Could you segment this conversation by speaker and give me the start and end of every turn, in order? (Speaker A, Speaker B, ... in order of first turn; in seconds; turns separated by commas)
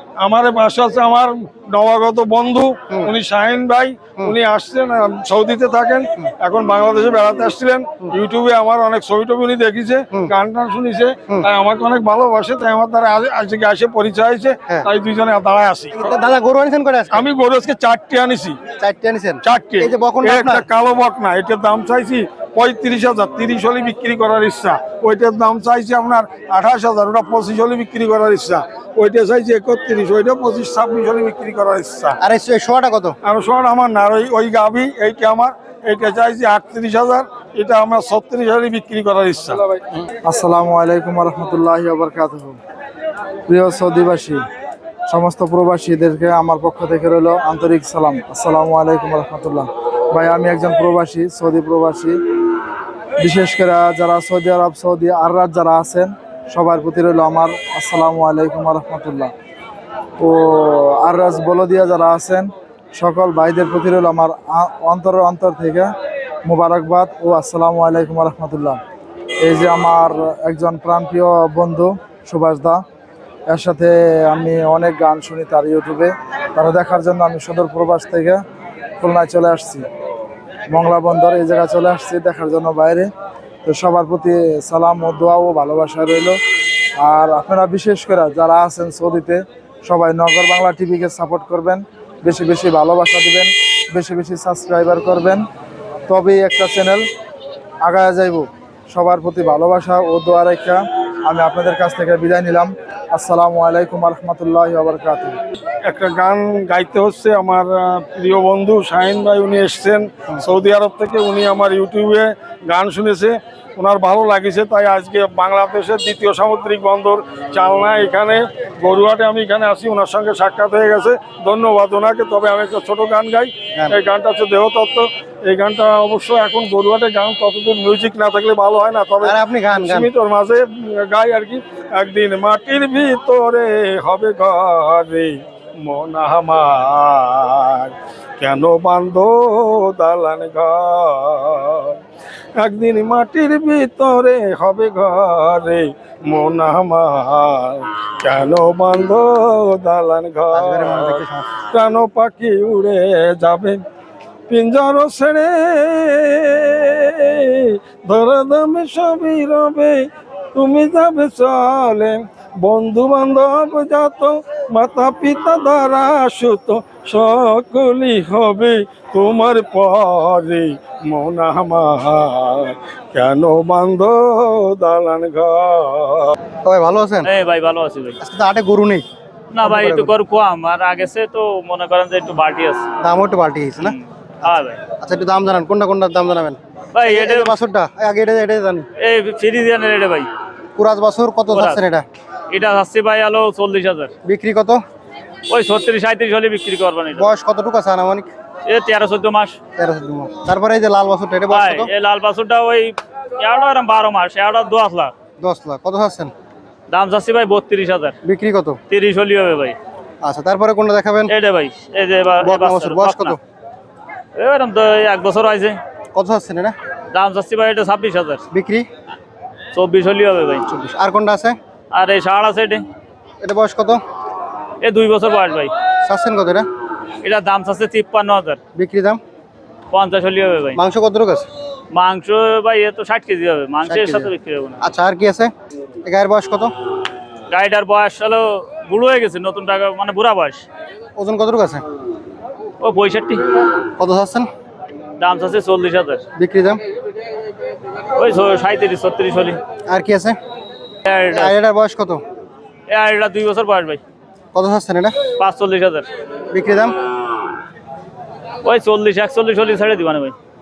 Speaker A: 0.2-15.9, Speaker B: 15.9-17.2, Speaker A: 17.1-18.6, Speaker B: 18.8-20.6, Speaker A: 19.4-32.2, Speaker B: 32.2-33.2, Speaker A: 33.2-39.6, Speaker C: 40.2-42.6, Speaker C: 43.5-44.4, Speaker C: 45.1-52.2, Speaker C: 53.2-59.3, Speaker C: 60.2-65.9, Speaker C: 66.5-68.8, Speaker C: 69.4-72.8, Speaker C: 73.5-78.4, Speaker C: 79.0-79.9, Speaker C: 80.7-83.1, Speaker C: 83.6-86.4, Speaker C: 87.0-95.5, Speaker C: 96.1-97.0, Speaker C: 97.8-105.4, Speaker A: 105.8-142.0, Speaker B: 129.2-130.1, Speaker A: 142.6-153.8, Speaker B: 150.5-151.5, Speaker A: 154.5-176.3, Speaker B: 176.6-177.3, Speaker D: 177.2-178.2, Speaker B: 178.2-179.0, Speaker D: 179.5-182.8, Speaker B: 179.6-180.1, Speaker B: 183.0-188.8, Speaker D: 183.8-184.8, Speaker D: 186.9-187.6, Speaker D: 189.0-190.3, Speaker B: 190.8-192.0, Speaker D: 191.5-191.8, Speaker D: 192.5-194.1, Speaker B: 194.2-194.8, Speaker D: 195.5-197.3, Speaker B: 197.1-198.3, Speaker D: 198.7-199.6, Speaker B: 199.8-201.9, Speaker D: 201.5-205.1, Speaker B: 205.4-206.3, Speaker D: 206.9-208.2, Speaker B: 208.2-208.8, Speaker D: 208.9-209.8, Speaker B: 210.2-211.3, Speaker D: 211.3-213.3, Speaker B: 212.4-213.4, Speaker D: 214.3-215.8, Speaker B: 216.1-216.8, Speaker D: 217.1-218.4, Speaker B: 218.5-218.8, Speaker D: 219.7-220.7, Speaker B: 220.7-221.6, Speaker D: 221.9-222.8, Speaker B: 223.4-224.0, Speaker D: 224.8-225.7, Speaker B: 226.1-226.7, Speaker D: 227.2-228.6, Speaker B: 228.7-229.2, Speaker D: 229.9-230.8, Speaker B: 230.7-231.5, Speaker D: 231.9-234.8, Speaker B: 233.9-234.3, Speaker B: 234.8-235.5, Speaker B: 236.0-236.7, Speaker D: 237.5-240.7, Speaker B: 241.2-241.8, Speaker D: 242.8-243.4, Speaker B: 244.0-244.5, Speaker D: 245.2-246.2, Speaker B: 246.3-246.8, Speaker D: 248.1-249.6, Speaker B: 249.9-250.4, Speaker D: 251.0-251.5, Speaker B: 251.3-252.2, Speaker D: 252.9-254.0, Speaker B: 254.5-255.2, Speaker D: 255.4-256.1, Speaker B: 256.5-257.0, Speaker D: 258.6-260.3